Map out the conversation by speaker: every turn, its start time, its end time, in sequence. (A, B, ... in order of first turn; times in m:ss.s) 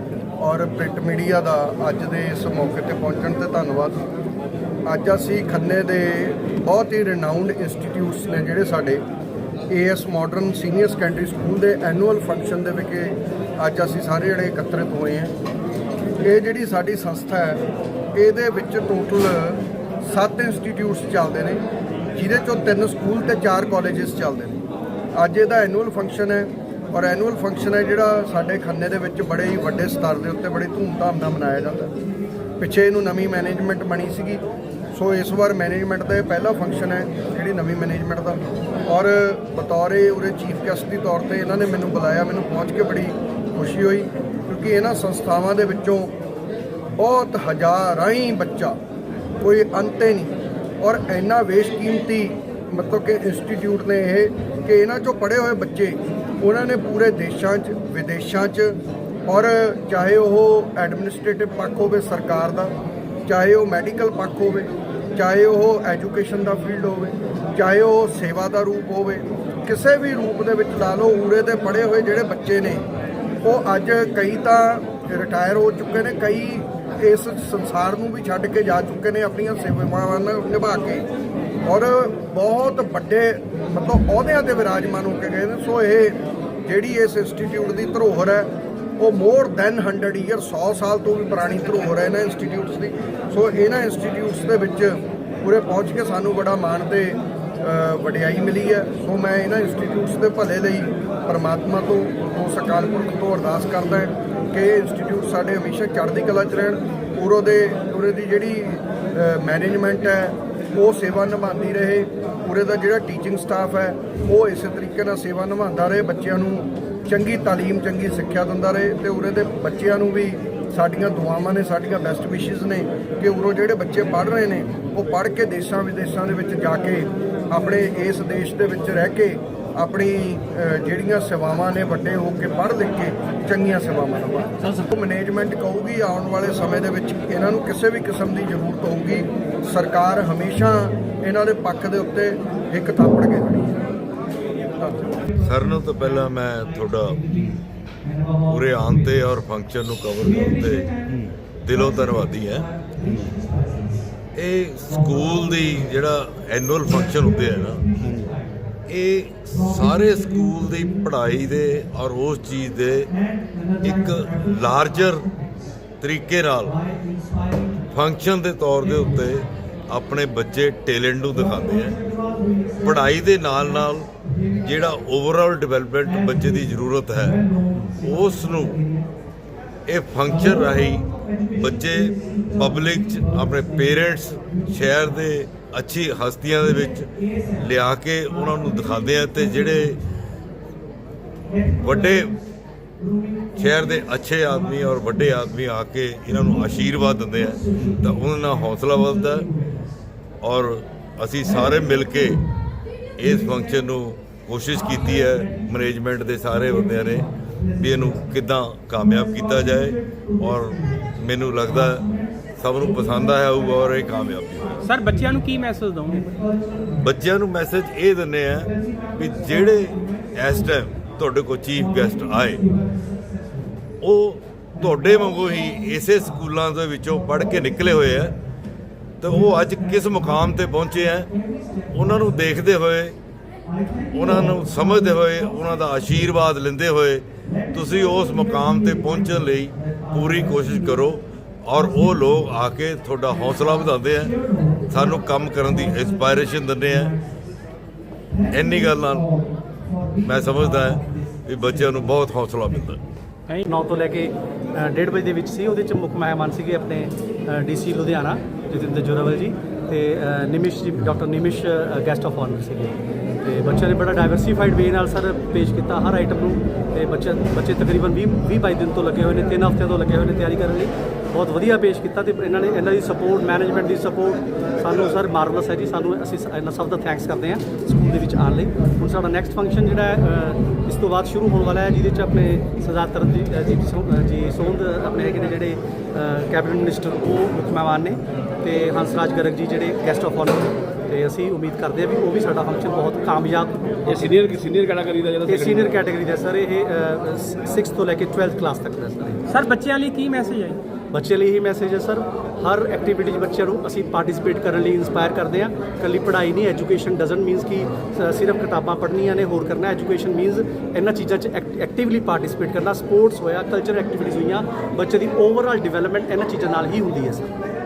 0:00.4-0:04.0 A
0:04.9-0:09.0 A
0:09.7-0:15.3 A
0:16.2-0:17.6 A
0:18.2-0:21.6 A
0:22.1-0:24.6 A
0:25.2-0:31.9 A
0:32.6-0:34.4 A
0:34.9-0:46.1 A
0:47.0-0:48.8 A
0:49.4-1:02.8 A
1:03.3-1:12.9 A
1:13.4-1:21.0 A
1:21.7-2:23.7 A
2:25.2-2:29.3 B
2:25.4-2:27.2 C
2:28.5-2:30.9 C
2:30.2-2:34.1 B
2:31.6-2:32.7 C
2:34.3-2:37.8 C
2:34.9-2:36.1 B
2:36.8-2:38.8 B
2:38.9-2:43.1 C
2:39.5-2:41.7 B
2:43.1-2:45.8 B
2:43.8-2:45.3 C
2:46.0-2:46.8 C
2:46.6-2:47.9 B
2:47.9-2:52.0 C
2:48.8-2:49.5 B
2:51.3-2:54.9 B
2:52.8-2:54.1 C
2:54.6-2:58.8 C
2:56.0-2:59.1 B
2:59.9-3:10.0 C
3:00.2-3:05.3 B
3:06.6-3:07.7 B
3:08.3-3:10.0 B
3:11.5-3:12.4 B
3:11.8-3:12.3 C
3:13.0-3:15.5 B
3:13.6-3:19.5 C
3:16.3-3:20.0 B
3:20.4-3:22.4 C
3:21.4-3:22.5 B
3:23.2-3:32.1 C
3:23.2-3:23.8 B
3:24.7-3:28.4 B
3:29.0-3:35.5 B
3:32.6-3:34.8 C
3:34.8-3:36.2 D
3:36.1-3:37.2 B
3:37.0-3:42.6 C
3:38.6-3:40.8 B
3:41.8-3:43.8 B
3:44.0-3:48.3 C
3:44.8-3:46.4 B
3:47.0-3:48.4 B
3:49.2-3:51.3 C
3:49.2-3:52.6 B
3:51.9-3:53.2 C
3:53.7-3:56.3 B
3:54.1-4:07.1 C
3:57.4-4:01.1 B
4:01.8-4:02.5 B
4:03.3-4:07.3 B
4:08.3-4:12.2 B
4:08.5-4:09.3 C
4:10.2-4:13.0 C
4:13.6-4:54.2 B
4:54.1-4:56.0 E
4:55.4-4:59.4 B
4:59.5-5:00.8 D
5:01.1-5:17.5 B